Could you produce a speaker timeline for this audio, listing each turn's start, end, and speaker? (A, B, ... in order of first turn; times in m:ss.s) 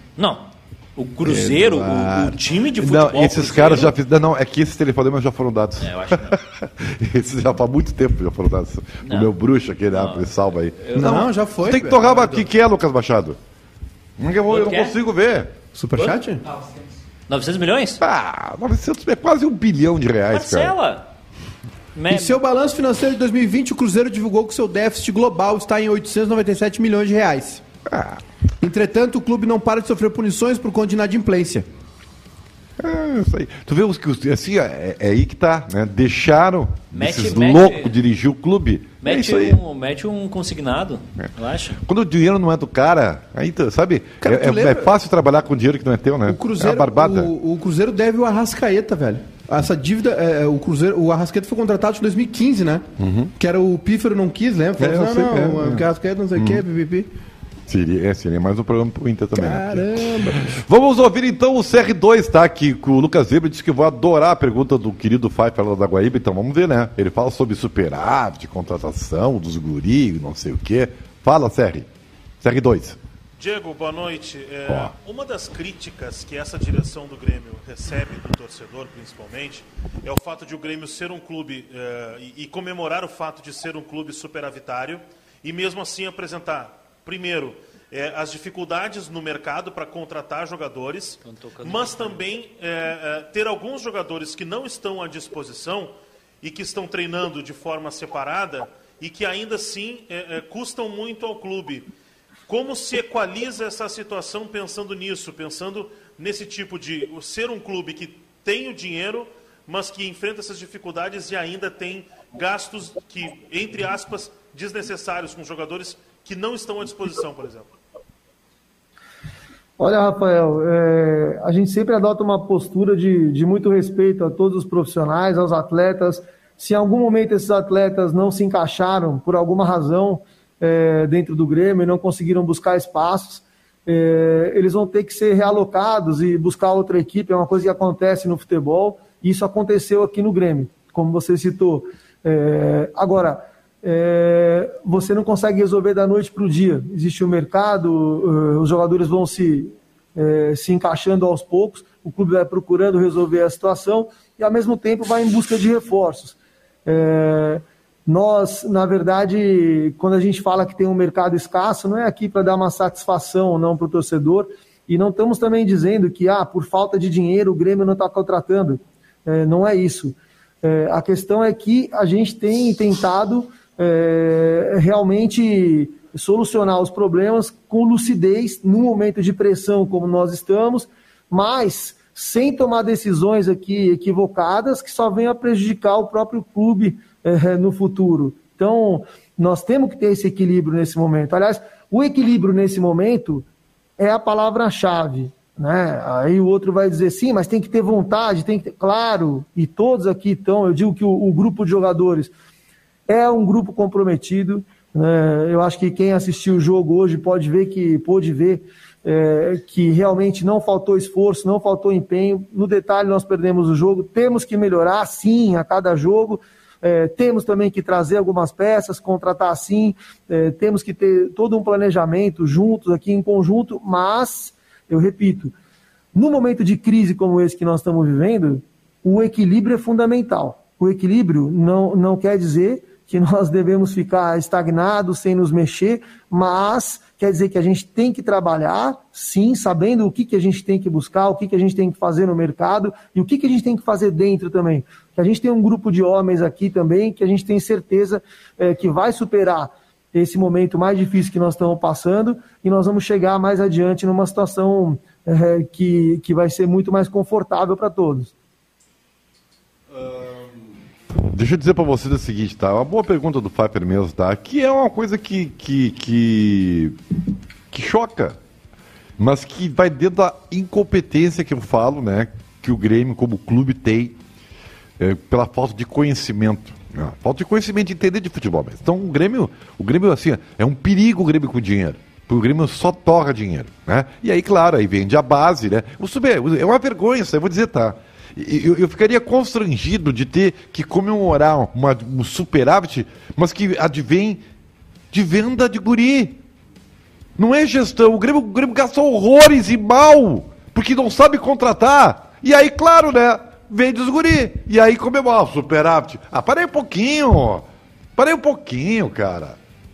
0:00.2-0:04.0 A
0:01.2-0:02.4 B
0:02.8-0:13.4 C
0:05.8-0:06.4 A
0:09.0-0:09.3 A
0:09.9-0:11.2 A
0:10.9-0:12.4 B
0:14.2-0:15.5 C
0:14.5-0:14.9 A
0:15.7-0:16.4 B
0:16.0-0:16.6 A
0:17.3-0:18.0 A
0:18.0-0:20.7 C
0:20.3-0:21.1 A
0:21.9-0:22.4 A
0:22.1-0:27.6 B
0:27.9-0:28.2 C
0:28.6-0:31.6 B
0:32.8-0:39.6 C
0:36.9-0:38.0 A
0:39.0-0:41.8 A
0:41.8-0:47.3 C
0:44.2-0:44.9 B
0:46.3-0:57.1 B
0:53.0-0:53.3 C
0:54.8-0:56.6 C
0:57.7-1:11.9 C
0:59.3-1:00.6 B
1:12.4-1:13.0 C
1:13.4-1:41.9 D
1:14.7-1:14.9 C
1:31.2-1:32.2 A
1:42.5-1:57.7 D
1:59.8-3:13.4 E
3:14.0-3:22.3 E
3:23.1-3:45.5 E
3:46.1-4:18.3 E
4:21.3-4:27.0 C
4:27.7-4:28.4 C
4:29.2-4:34.2 C
4:35.0-4:54.4 C
4:55.1-4:56.4 C
4:57.4-5:07.6 C
5:08.2-5:09.6 C